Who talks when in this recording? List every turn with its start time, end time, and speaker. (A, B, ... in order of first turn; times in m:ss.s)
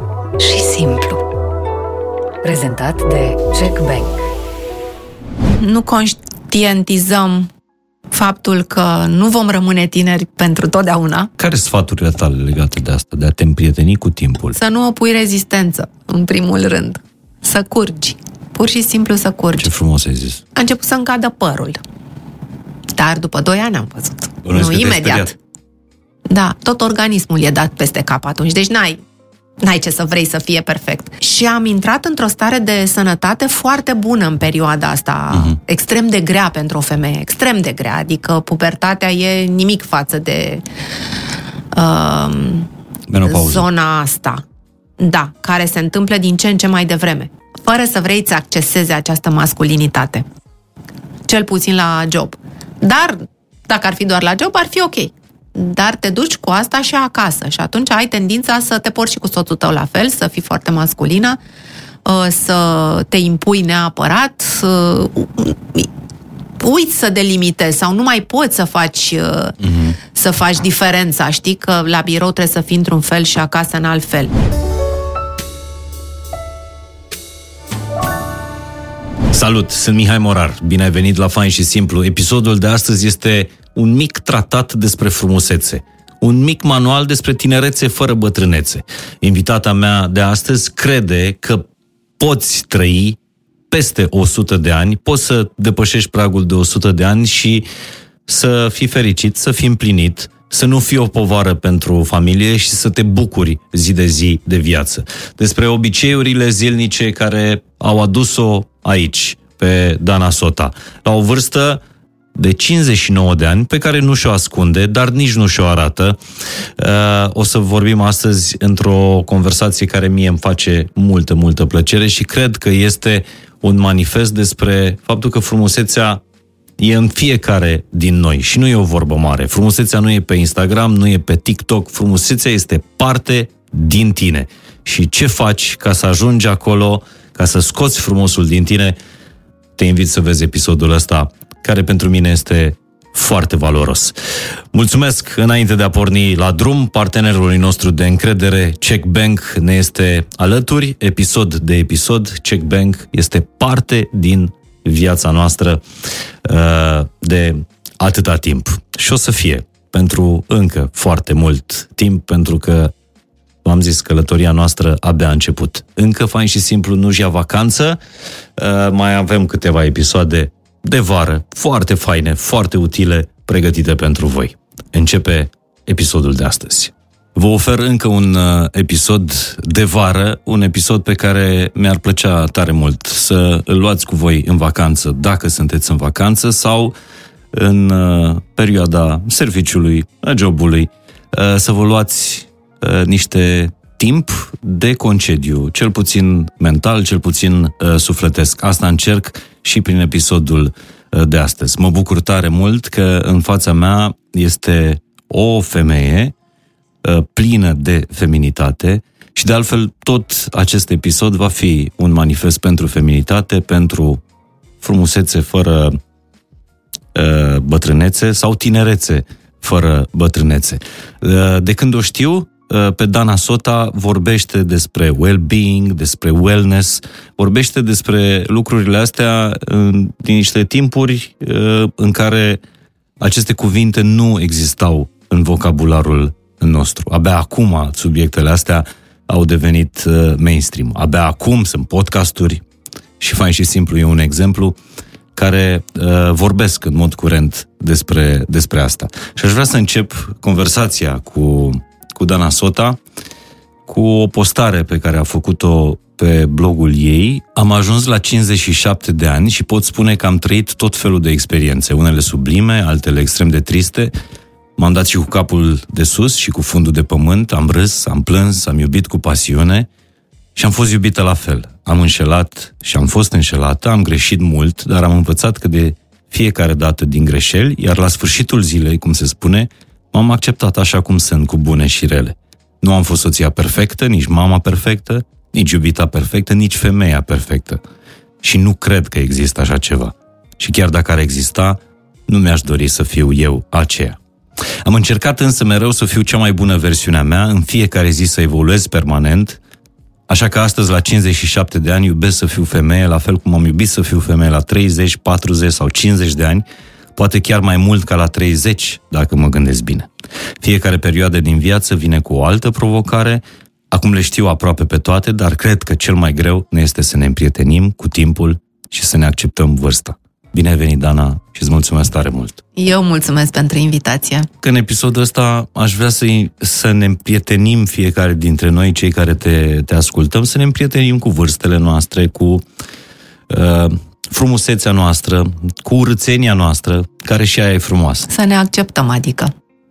0:00.4-0:01.2 A
0:02.4-0:04.1 A
0:05.5-0:07.5 B
0:08.1-0:11.3 B
0:11.4-0:14.6 C
0:14.6-0:19.7 B
0:19.6-0:20.4 C
0:20.6-0:21.8 B
0:23.0-0:25.4 B
0:24.4-0:25.3 C
0:26.3-0:29.0 B
0:29.6-0:40.6 B
0:35.3-0:35.6 C
0:41.7-0:42.7 B
0:43.1-0:43.7 C
0:43.2-0:44.4 B
0:45.0-0:50.3 B
0:51.3-1:01.4 B
1:02.0-1:05.9 B
1:06.6-1:09.6 B
1:09.6-1:10.0 C
1:10.1-1:14.3 B
1:19.3-1:31.7 C
1:32.2-1:33.2 C
1:33.7-1:37.7 C
1:38.3-1:51.8 C
1:52.4-1:56.2 C
1:56.8-2:06.2 C
2:06.8-2:19.0 C
2:19.8-2:35.8 C
2:36.4-2:42.9 C
2:43.6-2:48.0 C
2:48.6-3:06.9 C
3:07.5-3:26.4 C
3:27.0-3:34.2 C
3:34.8-3:36.0 C
3:37.1-3:52.6 C
3:53.2-4:02.6 C
4:03.2-4:04.8 C
4:05.4-4:13.0 C
4:13.9-4:24.1 C
4:24.8-4:29.9 C
4:30.6-4:47.8 C
4:48.4-4:54.2 C
4:54.8-4:59.6 C
5:00.3-5:10.1 C
5:10.6-5:22.6 C
5:22.8-5:24.5 B
5:24.6-5:32.6 C
5:33.5-5:38.3 C
5:38.3-5:39.5 B